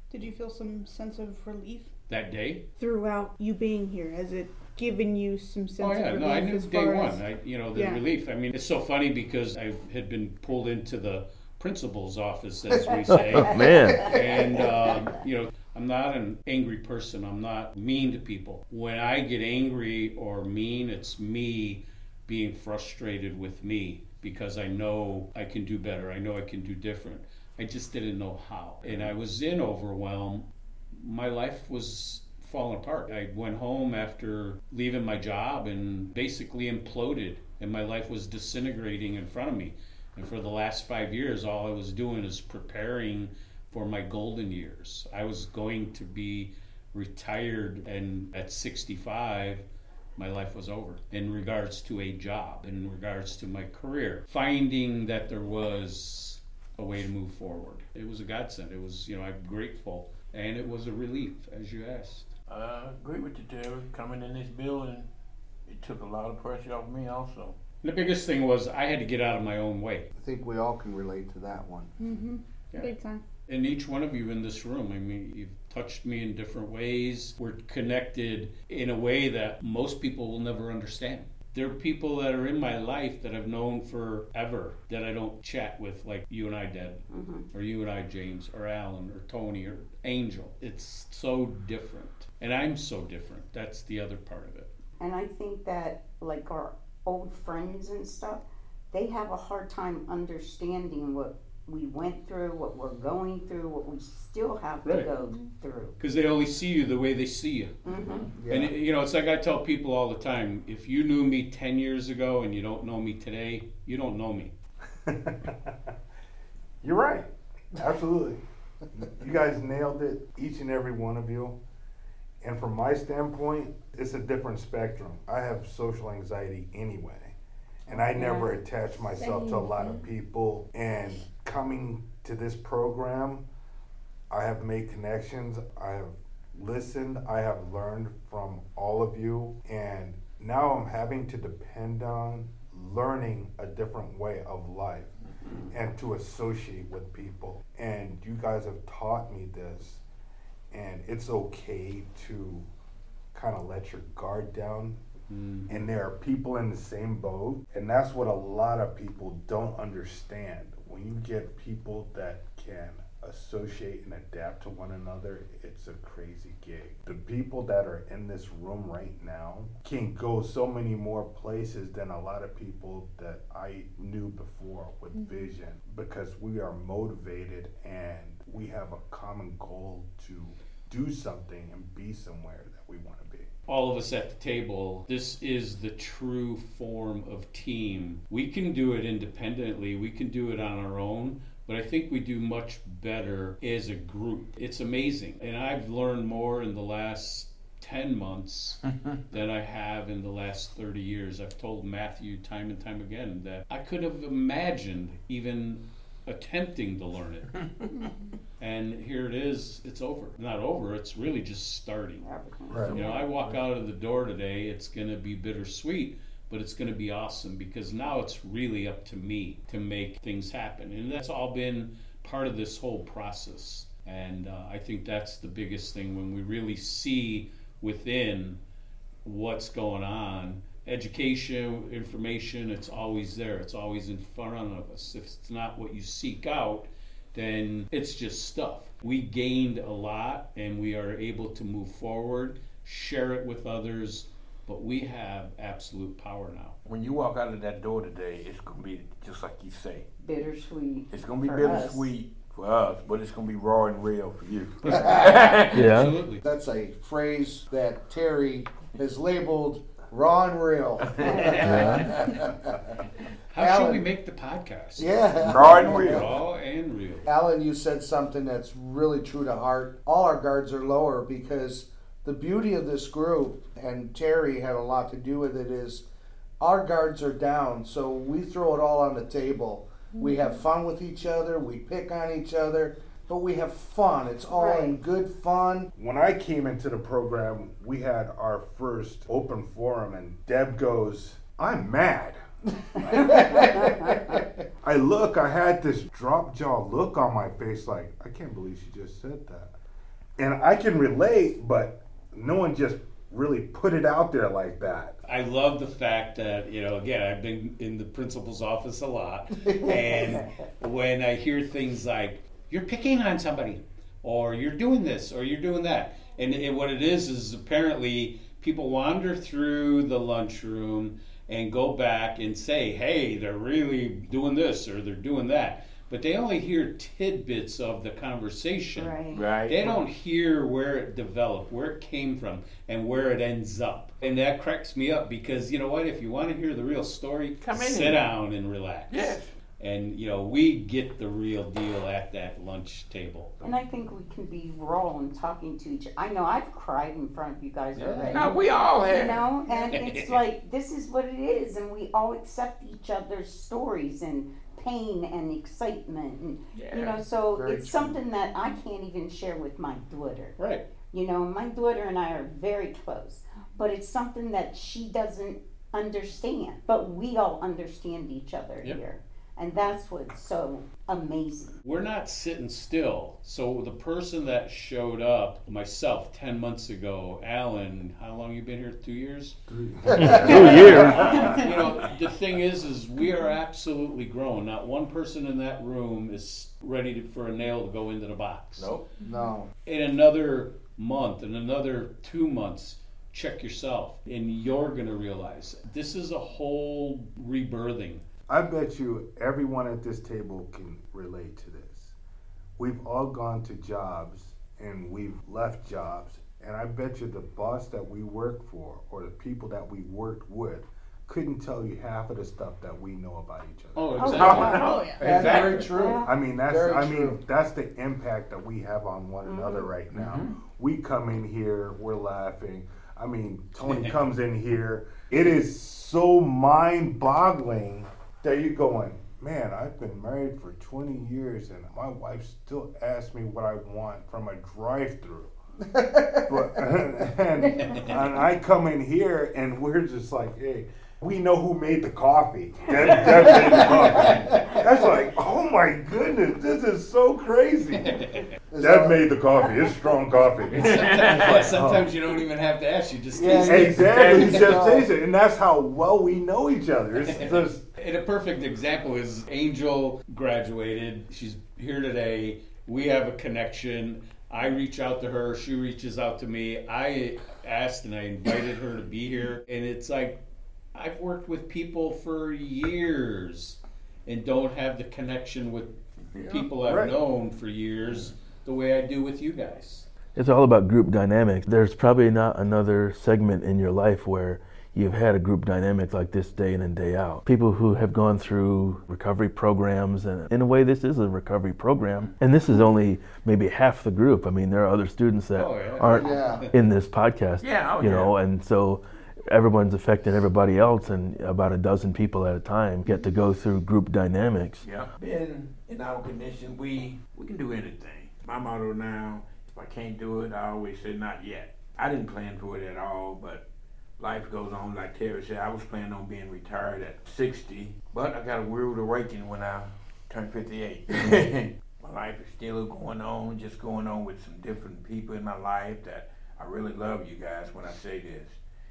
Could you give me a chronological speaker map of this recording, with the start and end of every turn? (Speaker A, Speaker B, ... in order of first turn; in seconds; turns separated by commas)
Speaker A: 0.1-1.9, Speaker B: 2.1-2.6, Speaker A: 2.8-8.0, Speaker B: 5.8-49.6, Speaker C: 13.1-14.2, Speaker D: 13.7-14.7, Speaker E: 28.8-29.1, Speaker B: 50.2-62.3, Speaker E: 62.5-65.1, Speaker E: 65.7-67.6, Speaker B: 67.8-70.1, Speaker F: 70.2-72.0, Speaker A: 72.0-73.2, Speaker B: 73.5-94.7, Speaker D: 87.1-87.5, Speaker D: 95.0-106.0, Speaker B: 104.8-105.1, Speaker B: 106.0-107.8, Speaker D: 107.8-108.3, Speaker F: 108.3-108.7, Speaker B: 108.5-114.5, Speaker G: 115.0-115.8, Speaker G: 116.8-118.4, Speaker G: 118.9-121.6, Speaker G: 122.4-133.4, Speaker D: 128.1-128.5, Speaker A: 129.0-130.1, Speaker G: 134.3-145.1, Speaker G: 145.7-150.0, Speaker G: 150.7-152.7, Speaker G: 153.3-155.0, Speaker B: 155.3-155.7, Speaker G: 155.7-183.5, Speaker B: 183.7-207.5, Speaker E: 207.6-207.8, Speaker A: 207.9-208.3, Speaker B: 208.6-212.3, Speaker D: 212.2-213.1, Speaker G: 212.7-212.9, Speaker E: 212.8-213.6, Speaker B: 212.9-228.6, Speaker B: 229.2-246.8, Speaker E: 246.8-250.1, Speaker D: 250.2-252.1, Speaker E: 251.1-255.8, Speaker F: 254.8-255.5, Speaker B: 254.9-256.4, Speaker C: 255.7-256.1, Speaker F: 256.4-262.9, Speaker E: 261.1-261.9, Speaker B: 261.3-262.3, Speaker C: 261.6-262.1, Speaker B: 263.5-267.2, Speaker F: 263.6-264.0, Speaker F: 265.0-266.2, Speaker E: 265.4-266.3, Speaker F: 267.2-276.0, Speaker F: 276.6-285.9, Speaker A: 280.1-280.6, Speaker D: 284.5-285.0, Speaker G: 285.9-292.4, Speaker G: 293.0-294.1, Speaker F: 293.1-294.4, Speaker D: 293.2-294.1, Speaker G: 294.8-299.7, Speaker G: 300.4-305.1, Speaker B: 305.2-343.6, Speaker D: 328.9-329.5, Speaker E: 329.3-330.0, Speaker E: 337.6-338.3, Speaker E: 339.1-339.5, Speaker D: 343.6-360.6, Speaker B: 347.9-348.6, Speaker E: 348.3-349.4, Speaker B: 349.9-350.4, Speaker E: 356.7-357.2, Speaker F: 357.5-358.2, Speaker B: 360.6-360.9, Speaker D: 361.1-371.8, Speaker B: 371.8-388.9, Speaker G: 379.7-381.7, Speaker F: 380.1-381.4, Speaker C: 380.2-381.3, Speaker D: 381.2-381.5, Speaker E: 388.8-389.1, Speaker A: 389.2-389.5, Speaker F: 389.2-389.7, Speaker B: 389.8-398.2, Speaker G: 398.5-402.1, Speaker G: 402.8-414.8, Speaker B: 413.9-415.9, Speaker D: 414.2-414.9, Speaker E: 414.3-415.9, Speaker A: 414.8-415.2, Speaker F: 415.2-417.4, Speaker D: 415.5-416.3, Speaker G: 416.2-435.5, Speaker D: 419.4-419.9, Speaker E: 420.1-420.5, Speaker F: 435.9-436.8, Speaker G: 436.5-448.2, Speaker D: 437.8-438.2, Speaker F: 443.8-444.7, Speaker F: 448.7-449.3, Speaker G: 448.8-452.1, Speaker B: 450.7-454.5, Speaker E: 450.9-451.7, Speaker F: 453.4-455.1, Speaker G: 453.6-457.8, Speaker E: 453.6-454.8, Speaker B: 457.3-470.4, Speaker B: 470.9-480.1, Speaker E: 476.3-476.7, Speaker G: 476.8-477.1, Speaker C: 480.3-504.9, Speaker B: 495.5-496.7, Speaker F: 496.1-496.7, Speaker E: 497.6-498.3, Speaker E: 504.8-513.6, Speaker E: 514.2-528.6